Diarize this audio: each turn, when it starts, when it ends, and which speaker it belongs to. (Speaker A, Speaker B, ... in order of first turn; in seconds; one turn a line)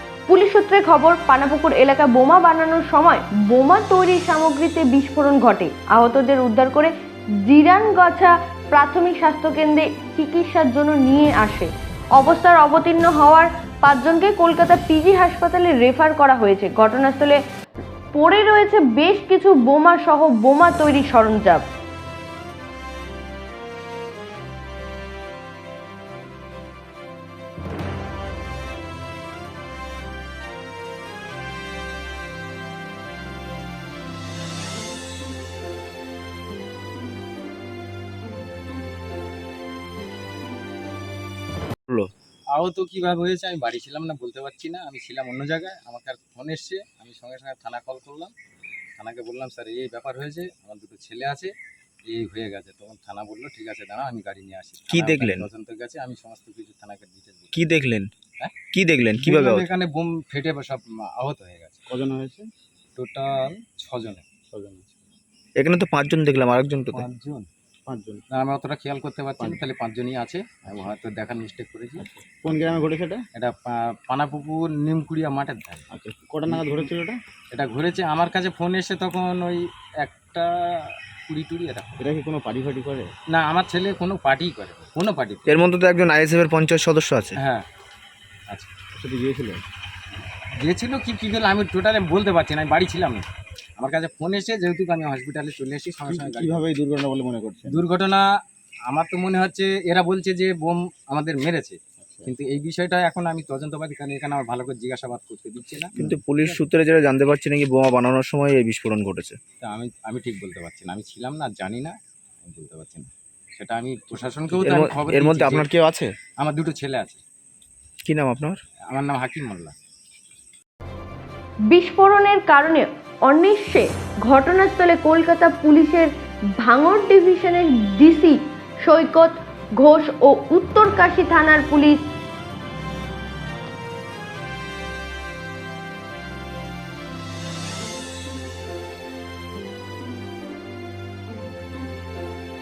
Speaker A: 0.3-17.4
Speaker A: 18.1-21.6
Speaker B: 42.5-48.3
Speaker B: 49.0-51.5
Speaker B: 52.1-57.7
Speaker C: 54.9-55.5
Speaker C: 57.5-58.1
Speaker C: 58.7-59.7
Speaker B: 59.2-61.8
Speaker D: 61.9-62.5
Speaker B: 63.0-64.3
Speaker D: 64.5-64.9
Speaker C: 65.6-67.0
Speaker B: 66.9-67.5
Speaker D: 67.9-68.2
Speaker B: 68.3-72.0
Speaker D: 72.4-73.2
Speaker B: 73.3-75.8
Speaker D: 75.9-77.2
Speaker B: 76.5-76.8
Speaker B: 77.5-82.0
Speaker D: 82.0-83.1
Speaker B: 83.3-85.6
Speaker C: 85.5-87.4
Speaker B: 87.3-87.7
Speaker D: 88.9-89.6
Speaker B: 90.6-93.2
Speaker B: 93.8-96.7
Speaker D: 96.0-97.8
Speaker B: 97.7-98.3
Speaker B: 98.9-106.6
Speaker D: 102.0-102.3
Speaker C: 106.0-109.4
Speaker B: 109.6-115.7
Speaker C: 114.6-116.1
Speaker B: 116.4-117.2
Speaker C: 118.0-118.6
Speaker B: 118.9-119.7
Speaker A: 121.7-132.1